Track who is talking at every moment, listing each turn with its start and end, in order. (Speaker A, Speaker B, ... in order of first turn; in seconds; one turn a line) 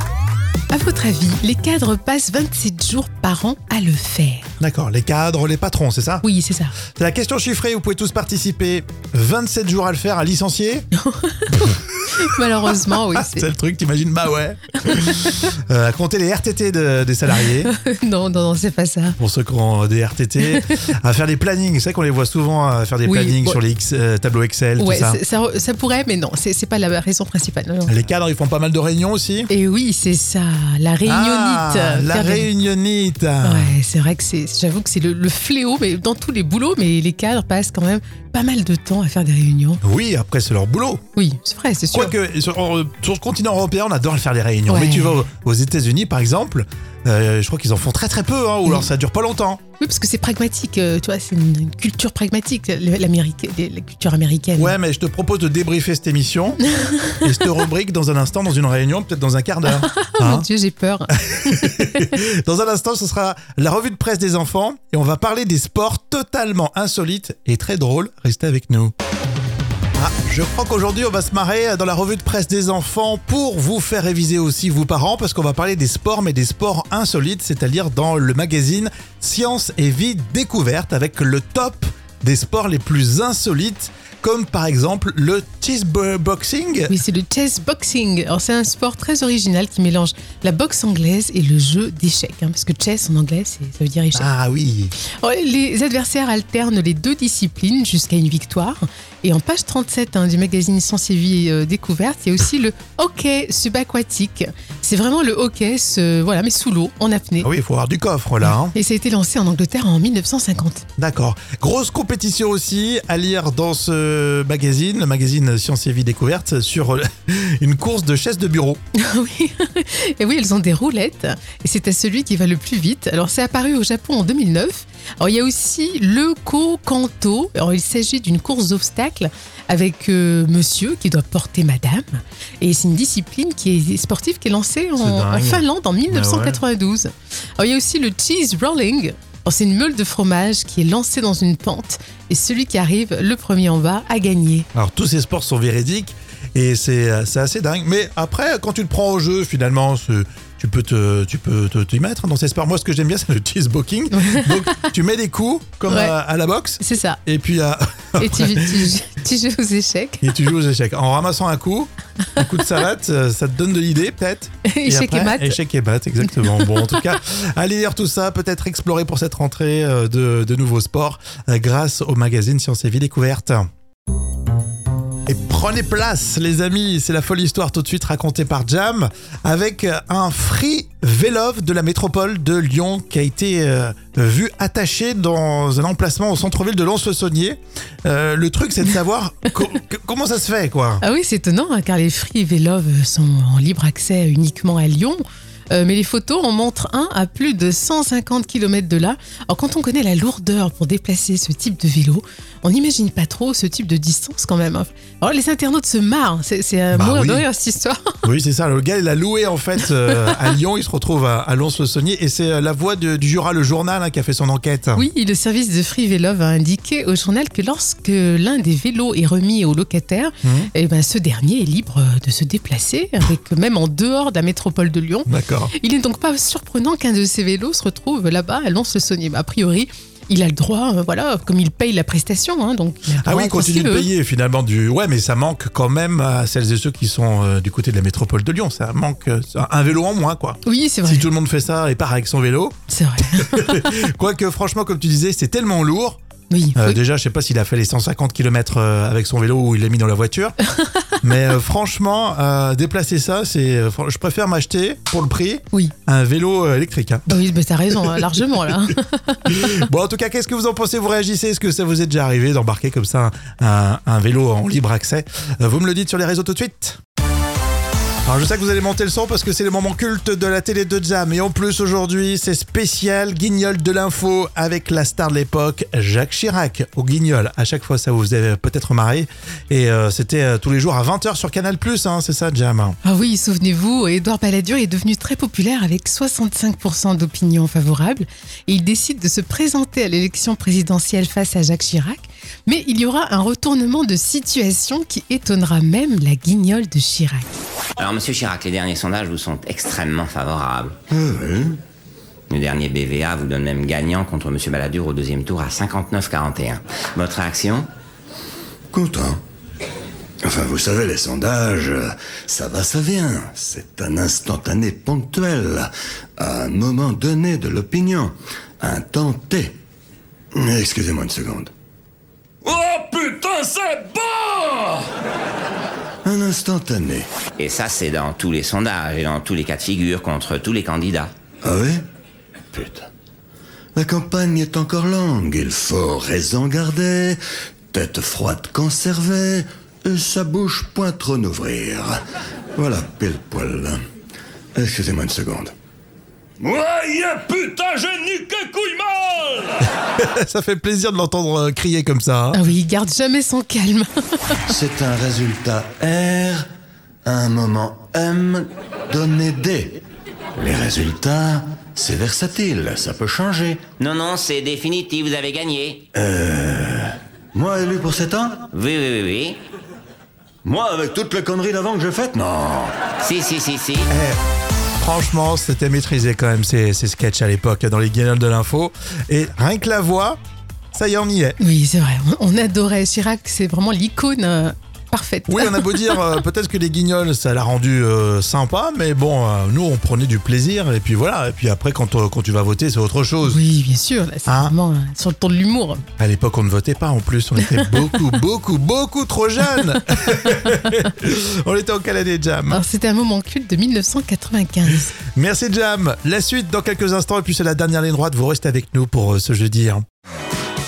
Speaker A: 0.7-4.5
Speaker B: 4.6-6.2
Speaker A: 6.2-6.7
Speaker B: 6.9-10.9
Speaker A: 11.0-13.5
Speaker B: 11.5-12.0
Speaker B: 13.1-17.7
Speaker A: 14.9-15.1
Speaker A: 17.6-19.2
Speaker B: 19.2-25.2
Speaker A: 23.0-23.6
Speaker A: 24.8-27.9
Speaker B: 27.9-29.5
Speaker A: 29.5-32.5
Speaker B: 31.1-33.8
Speaker A: 33.4-39.8
Speaker B: 39.8-41.0
Speaker A: 41.1-42.1
Speaker B: 41.9-49.6
Speaker A: 44.7-45.2
Speaker A: 49.8-54.7
Speaker B: 54.5-56.6
Speaker A: 56.8-57.1
Speaker B: 57.2-60.5
Speaker A: 59.7-61.8
Speaker B: 61.2-68.9
Speaker B: 70.0-86.9
Speaker A: 86.9-94.3
Speaker B: 94.1-94.9
Speaker A: 95.0-107.5
Speaker B: 107.4-108.7
Speaker A: 108.4-110.8
Speaker B: 111.0-118.8
Speaker A: 119.0-144.7
Speaker B: 135.0-136.6
Speaker B: 144.7-158.9
Speaker A: 154.1-154.8
Speaker A: 155.9-156.1
Speaker A: 156.8-157.2
Speaker A: 158.2-160.3
Speaker B: 160.2-173.7
Speaker A: 164.7-165.6
Speaker A: 166.3-167.0
Speaker B: 175.3-191.0
Speaker A: 191.0-208.1
Speaker B: 206.9-207.4
Speaker B: 208.2-215.1
Speaker A: 214.9-234.1
Speaker B: 220.4-220.7
Speaker B: 225.3-225.7
Speaker B: 233.2-242.7
Speaker A: 240.6-241.2
Speaker A: 242.9-243.8
Speaker B: 243.4-246.2
Speaker A: 246.5-247.0
Speaker B: 246.8-250.6
Speaker B: 251.2-257.3
Speaker A: 257.3-259.8
Speaker B: 259.5-267.0
Speaker B: 268.2-283.0
Speaker A: 283.0-297.6
Speaker C: 298.0-300.9
Speaker D: 301.1-301.8
Speaker C: 302.5-307.9
Speaker D: 308.9-309.4
Speaker D: 310.4-319.8
Speaker D: 320.5-321.7
Speaker E: 322.6-325.1
Speaker D: 326.2-327.3
Speaker C: 327.6-331.3
Speaker D: 331.6-332.0
Speaker D: 332.7-333.1
Speaker D: 333.9-337.4
Speaker D: 337.9-342.1
Speaker D: 342.8-344.0
Speaker D: 344.8-345.7
Speaker E: 346.6-349.8
Speaker B: 350.2-352.6
Speaker A: 352.5-354.6
Speaker D: 354.7-356.6
Speaker D: 357.2-360.0
Speaker D: 360.6-363.8
Speaker C: 364.0-366.0
Speaker D: 366.1-368.7
Speaker C: 368.7-369.6
Speaker D: 370.6-372.9
Speaker C: 373.2-374.1
Speaker B: 374.1-374.4
Speaker B: 375.0-380.4
Speaker B: 380.9-381.6
Speaker A: 381.6-386.3
Speaker B: 385.5-393.6
Speaker A: 393.4-396.0
Speaker B: 394.4-394.7
Speaker B: 396.2-402.8
Speaker A: 397.6-398.1
Speaker A: 402.7-405.1
Speaker B: 405.3-410.0